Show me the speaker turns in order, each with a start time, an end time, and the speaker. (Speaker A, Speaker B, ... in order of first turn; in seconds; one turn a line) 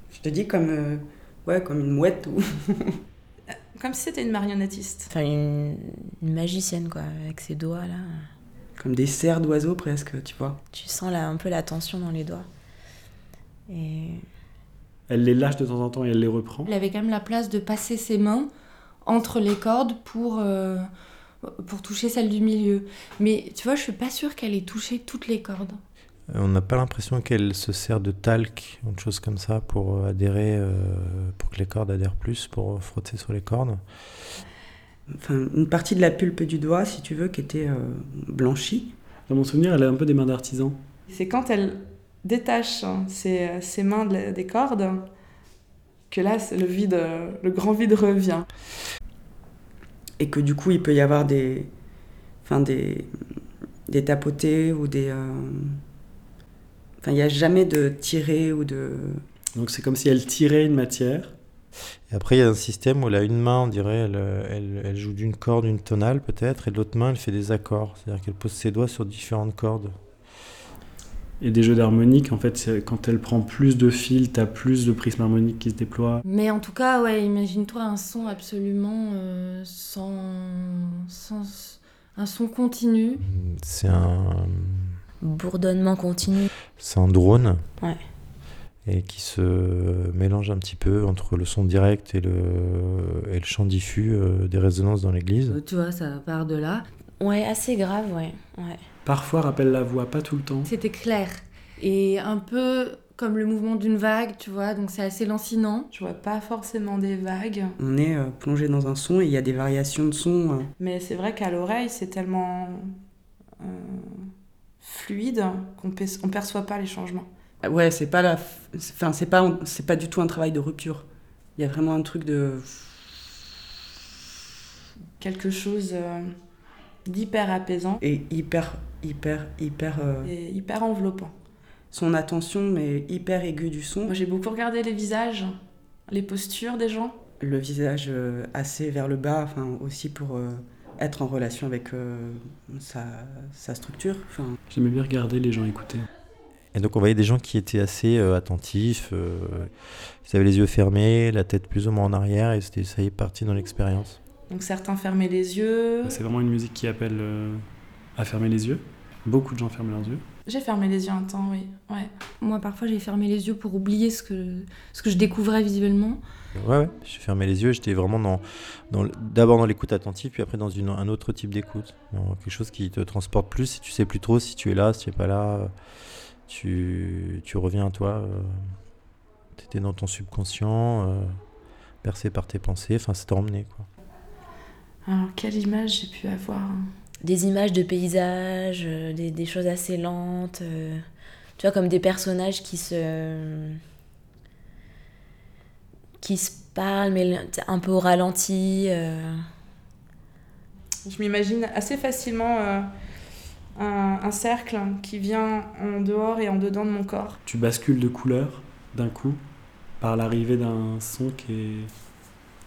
Speaker A: 0.1-3.0
Speaker B: 3.7-5.1
Speaker C: 5.1-8.3
Speaker A: 8.8-10.6
Speaker C: 10.7-12.5
Speaker C: 13.7-14.2
Speaker D: 15.1-16.7
Speaker E: 16.7-18.5
Speaker E: 19.0-20.9
Speaker E: 21.4-25.8
Speaker F: 26.3-33.8
Speaker A: 35.1-38.9
Speaker D: 39.3-40.8
Speaker B: 41.1-45.1
Speaker B: 46.1-48.5
Speaker A: 50.2-51.7
Speaker A: 52.5-53.1
Speaker A: 53.9-55.8
Speaker A: 57.0-59.2
Speaker D: 59.5-61.3
Speaker F: 62.1-69.9
Speaker D: 71.4-76.2
Speaker E: 76.2-83.2
Speaker F: 83.2-85.0
Speaker C: 85.2-86.5
Speaker F: 86.8-87.6
Speaker F: 88.9-95.6
Speaker E: 95.5-96.9
Speaker C: 97.2-98.8
Speaker D: 99.0-100.7
Speaker E: 100.7-105.9
Speaker B: 105.9-107.8
Speaker A: 107.8-110.7
Speaker B: 110.8-113.0
Speaker B: 113.6-117.3
Speaker A: 117.6-123.1
Speaker B: 125.2-126.3
Speaker B: 127.1-128.0
Speaker A: 128.0-130.3
Speaker B: 130.2-131.4
Speaker A: 131.9-134.1
Speaker B: 134.1-137.2
Speaker A: 137.4-144.6
Speaker D: 144.7-146.1
Speaker F: 146.7-149.7
Speaker F: 150.2-154.2
Speaker B: 154.5-156.2
Speaker D: 156.0-157.6
Speaker D: 158.2-160.2
Speaker B: 160.5-162.1
Speaker E: 162.4-166.2
Speaker F: 166.6-175.7
Speaker F: 176.5-178.5
Speaker F: 179.6-181.3
Speaker F: 182.0-183.9
Speaker B: 185.1-186.8
Speaker C: 187.2-191.0
Speaker C: 191.6-193.8
Speaker C: 196.2-199.4
Speaker B: 201.1-202.9
Speaker B: 203.8-207.4
Speaker D: 207.4-209.4
Speaker D: 210.0-211.9